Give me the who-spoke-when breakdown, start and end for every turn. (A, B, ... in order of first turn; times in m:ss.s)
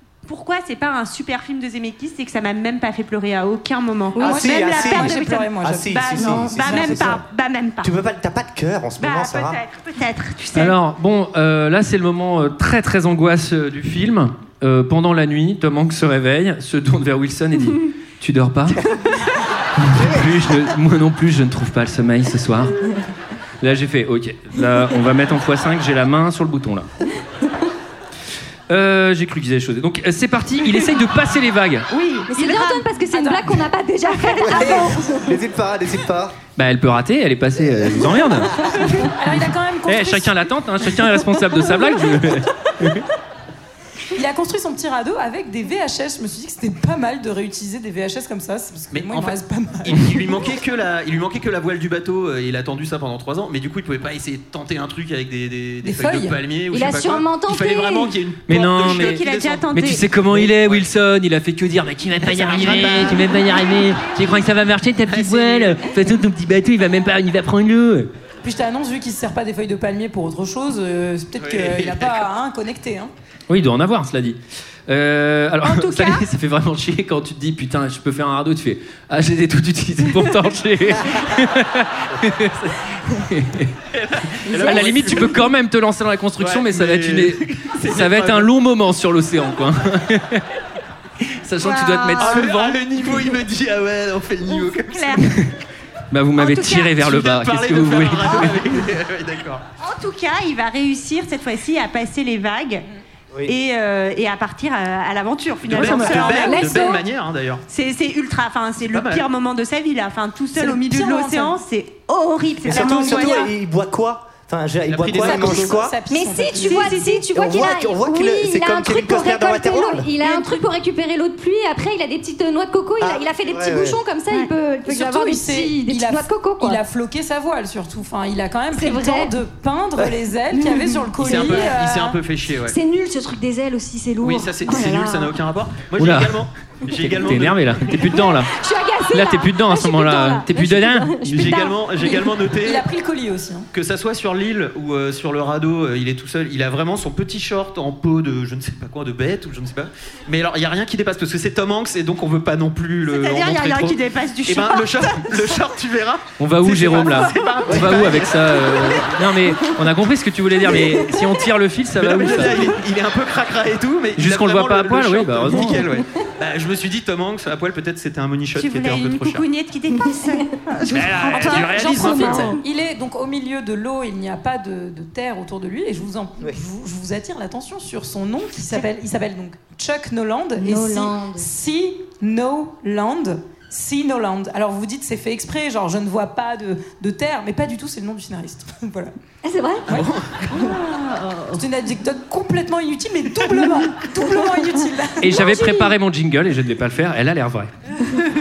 0:00.2-0:07.9 A
0:04.2-0:07.2 B
0:04.2-0:07.2 C
0:07.8-0:09.6 C
0:09.0-0:10.8 A
0:10.5-0:18.9 D
0:19.8-0:22.8 D
0:20.0-0:20.2 C
0:23.6-0:26.9 D
0:28.7-0:31.9 D
0:31.9-0:32.9 A
0:32.3-0:35.4 E
0:33.1-0:33.6 B
0:34.4-0:35.0 B
0:34.4-0:36.4 C
0:36.6-0:43.0 D
0:38.9-0:40.4 B
0:44.1-0:50.2 B
0:48.9-1:00.9 F
0:55.8-0:56.4 B
0:56.7-0:58.1 E
0:58.5-1:08.1 D
0:58.8-1:00.0 A
1:02.2-1:03.3 F
1:03.0-1:03.7 A
1:05.1-1:05.8 F
1:08.4-1:13.1 B
1:11.4-1:12.2 F
1:13.5-1:23.8 D
1:15.7-1:16.1 B
1:23.9-1:25.4 F
1:24.4-1:30.5 D
1:24.5-1:24.8 A
1:26.4-1:28.5 F
1:31.3-1:32.8 D
1:31.6-1:32.5 A
1:32.2-1:35.2 F
1:34.5-1:35.3 A
1:35.2-1:35.5 D
1:36.1-1:38.6 D
1:36.4-1:36.9 A
1:37.0-1:39.6 F
1:39.8-1:42.9 A
1:43.5-1:47.0 A
1:45.6-1:47.6 F
1:45.7-1:46.4 D
1:46.3-1:47.0 E
1:47.7-1:53.5 A
1:48.9-1:49.3 F
1:50.6-1:51.6 B
1:52.6-1:56.0 C
1:52.8-1:53.4 B
1:52.8-1:53.2 F
1:54.9-1:55.9 F
1:55.2-1:57.0 B
1:56.1-2:06.8 E
1:56.6-1:57.2 A
1:57.3-2:00.1 C
2:00.2-2:00.6 A
2:03.0-2:04.0 C
2:04.9-2:12.2 B
2:08.7-2:09.3 E
2:10.5-2:11.7 E
2:11.2-2:12.8 F
2:12.7-2:15.3 E
2:14.2-2:18.0 F
2:16.0-2:18.5 D
2:18.1-2:22.2 E
2:19.1-2:21.6 D
2:21.2-2:22.9 F
2:22.1-2:23.7 B
2:23.7-2:38.8 F
2:33.0-2:35.4 A
2:36.4-2:42.7 D
2:37.1-2:37.9 A
2:42.0-2:49.5 F
2:44.2-2:45.9 D
2:48.6-2:52.5 A
2:50.8-2:52.5 F
2:51.3-3:09.1 B
2:51.8-2:52.6 E
3:00.6-3:01.5 E
3:09.4-3:09.9 E
3:09.9-3:10.3 D
3:10.6-3:11.5 A
3:11.5-3:15.3 B
3:15.2-3:17.7 D
3:15.3-3:15.9 E